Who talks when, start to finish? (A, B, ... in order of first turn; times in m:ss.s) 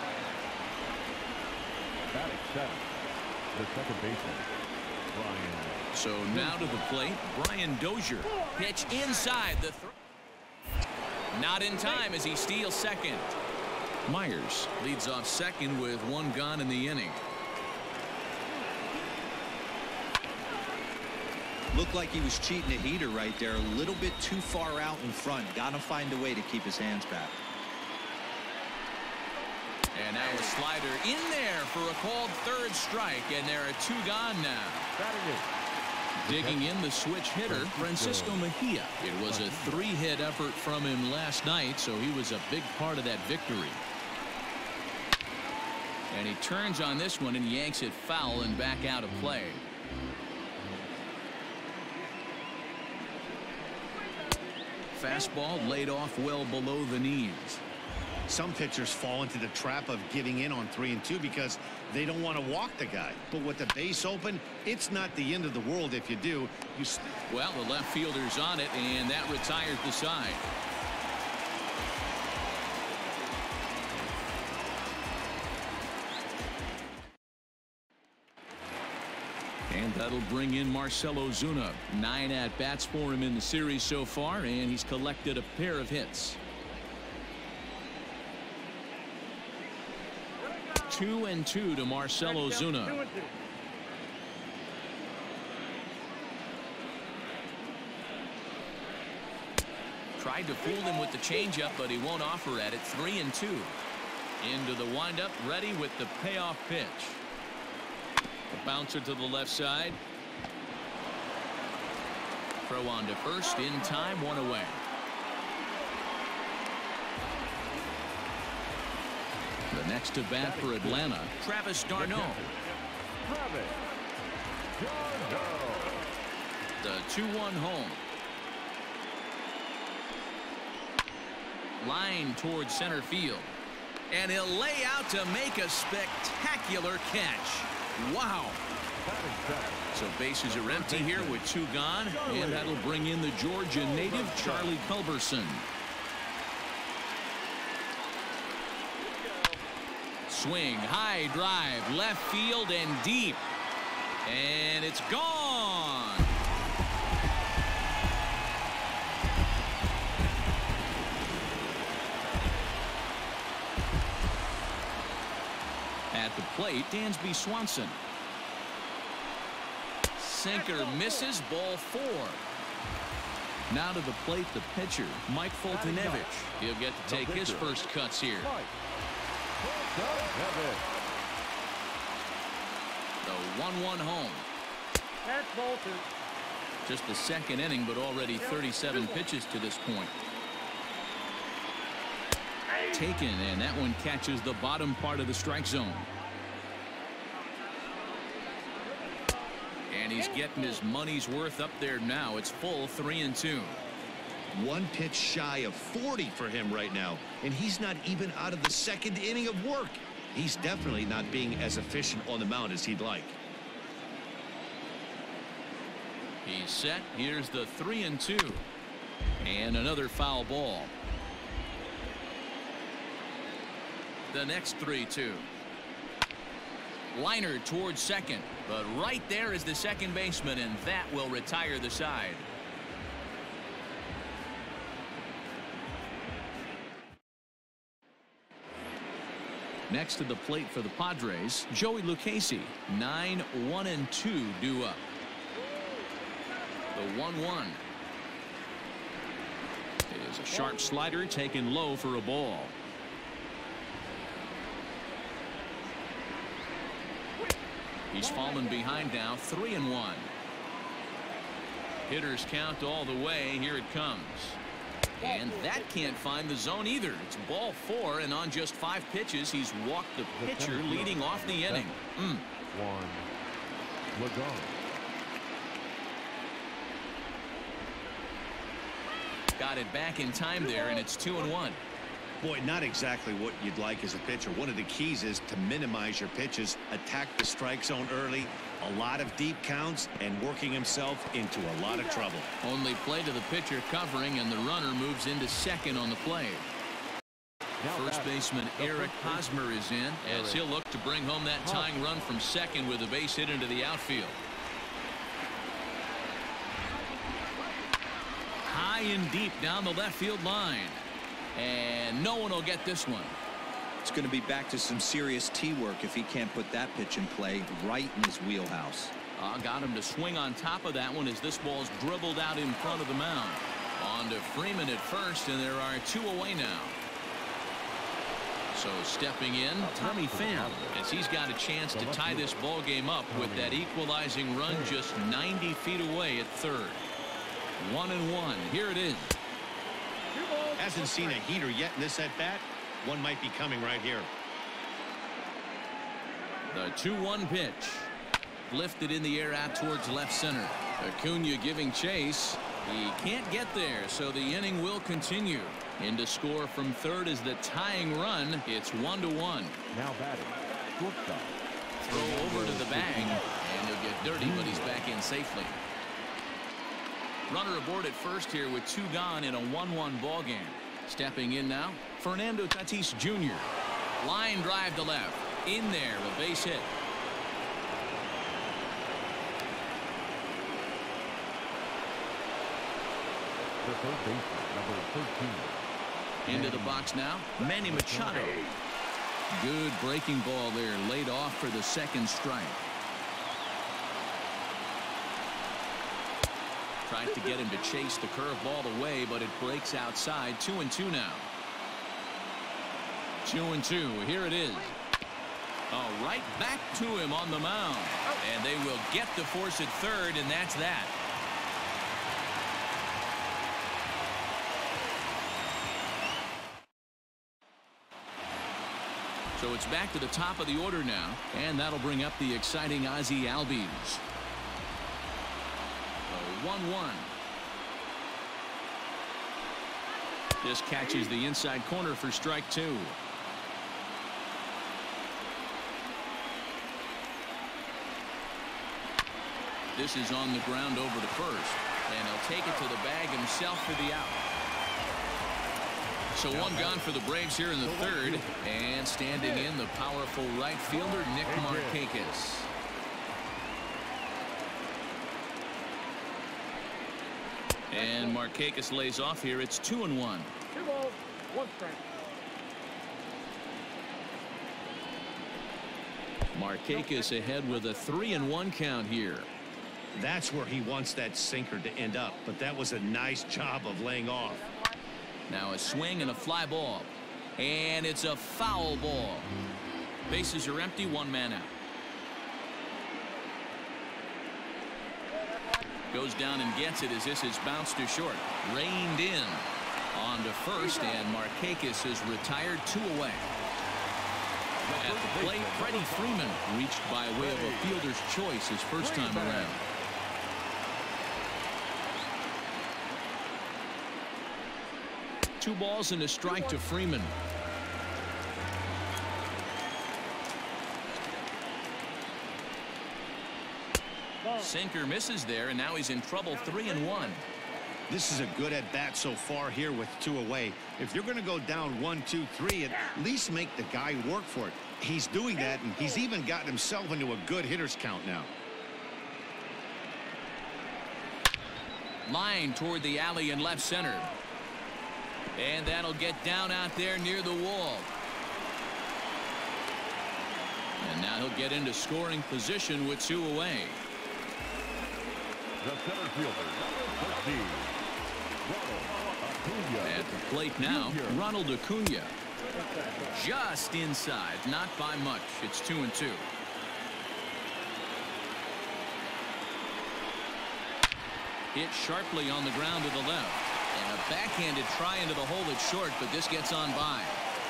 0:02.1-0:02.9 A
0:03.5-0:04.5 A
0:05.1-0:06.9 A
0:05.9-0:09.9 B
0:11.3-0:13.3 B
0:14.1-0:17.2 B
0:21.7-0:27.4 C
0:29.9-0:34.9 B
0:35.0-0:35.5 A
0:36.2-0:43.8 B
0:36.2-0:36.7 A
0:37.5-0:38.5 A
0:39.1-0:39.9 A
0:46.1-0:49.6 B
0:54.9-0:57.6 B
0:58.3-1:07.2 D
1:07.3-1:10.5 B
1:19.7-1:26.4 B
1:30.9-1:33.0 B
1:32.2-1:33.3 E
1:40.2-1:43.7 B
1:44.4-1:47.2 B
1:48.5-1:50.0 B
1:52.7-1:54.8 B
1:59.7-2:02.5 B
2:00.4-2:01.2 A
2:01.9-2:02.6 A
2:03.2-2:03.8 A
2:04.8-2:06.1 A
2:06.8-2:08.0 B
2:11.8-2:13.5 B
2:14.1-2:18.6 B
2:19.0-2:20.0 A
2:19.9-2:25.7 B
2:20.5-2:21.5 A
2:22.1-2:22.8 A
2:23.8-2:24.8 A
2:30.3-2:33.4 B
2:34.3-2:36.3 B
2:46.1-2:48.0 B
2:50.2-2:52.4 B
2:50.5-2:51.3 E
2:53.7-2:58.5 B
2:55.7-2:56.3 A
2:57.0-2:58.7 A
2:59.6-3:00.8 A
3:03.2-3:04.5 B
3:05.2-3:06.0 E
3:06.8-3:10.2 B
3:08.4-3:09.3 E
3:12.7-3:13.1 E
3:12.9-3:16.1 B
3:19.9-3:23.8 B
3:20.3-3:20.8 E
3:24.5-3:33.4 D
3:36.4-3:38.6 B
3:39.4-3:40.9 B
3:44.3-3:45.5 B
3:47.1-3:52.4 B
3:59.9-4:05.1 B
4:06.9-4:07.8 B
4:10.1-4:12.8 B
4:18.1-4:20.3 B
4:18.2-4:19.1 E
4:22.1-4:24.6 B
4:25.2-4:32.5 B
4:25.2-4:26.1 E
4:30.3-4:31.9 A
4:32.7-4:33.3 A
4:34.1-4:34.8 A
4:39.6-4:41.8 B
4:40.6-4:41.1 E
4:42.4-4:52.5 D
4:52.6-4:56.7 B
4:57.8-4:59.5 A
4:57.9-5:04.4 B
5:00.2-5:00.6 A
5:01.6-5:02.0 A
5:08.6-5:11.0 B
5:11.6-5:13.3 B
5:14.0-5:19.1 C
5:19.4-5:27.0 B
5:28.7-5:37.0 B
5:29.8-5:31.0 A
5:31.9-5:32.6 A
5:33.3-5:33.9 A
5:34.7-5:35.0 A
5:37.8-5:39.4 B
5:40.3-5:41.4 E
5:40.8-5:44.3 D
5:46.7-5:48.1 B
5:48.7-5:59.8 B
5:59.9-6:03.6 A
6:02.0-6:05.8 B
6:04.3-6:05.1 A
6:07.5-6:16.9 B
6:23.8-6:25.7 A
6:26.4-6:28.7 A
6:26.5-6:28.7 B
6:29.5-6:32.9 B
6:37.1-6:41.5 B
6:43.4-6:45.0 B
6:45.9-6:51.1 B
6:59.6-7:04.2 B
7:06.3-7:07.3 B
7:10.6-7:13.2 B
7:20.0-7:24.5 B
7:26.3-7:32.7 B
7:26.5-7:27.1 A
7:27.8-7:28.6 A
7:29.3-7:29.7 A
7:30.9-7:32.0 A
7:37.9-7:40.5 B
7:38.0-7:38.4 E
7:40.7-7:42.1 E
7:46.5-7:49.5 B
7:46.9-7:48.5 E
7:50.2-7:54.7 D
7:55.5-7:59.5 B
8:00.3-8:01.7 B
8:06.1-8:13.5 B
8:14.8-8:16.6 A
8:15.0-8:19.8 B
8:17.4-8:18.1 A
8:19.0-8:19.8 A
8:25.6-8:27.3 B
8:26.5-8:26.8 E
8:34.4-8:34.8 E
8:34.6-8:37.4 B
8:36.5-8:37.4 E
8:38.1-8:48.5 D
8:45.7-8:46.2 E
8:52.3-8:54.3 B
8:55.6-8:58.1 B
9:01.0-9:04.0 B
9:05.8-9:08.0 A
9:08.6-9:11.5 A
9:10.0-9:12.4 B
9:13.2-9:16.5 B
9:21.7-9:27.4 B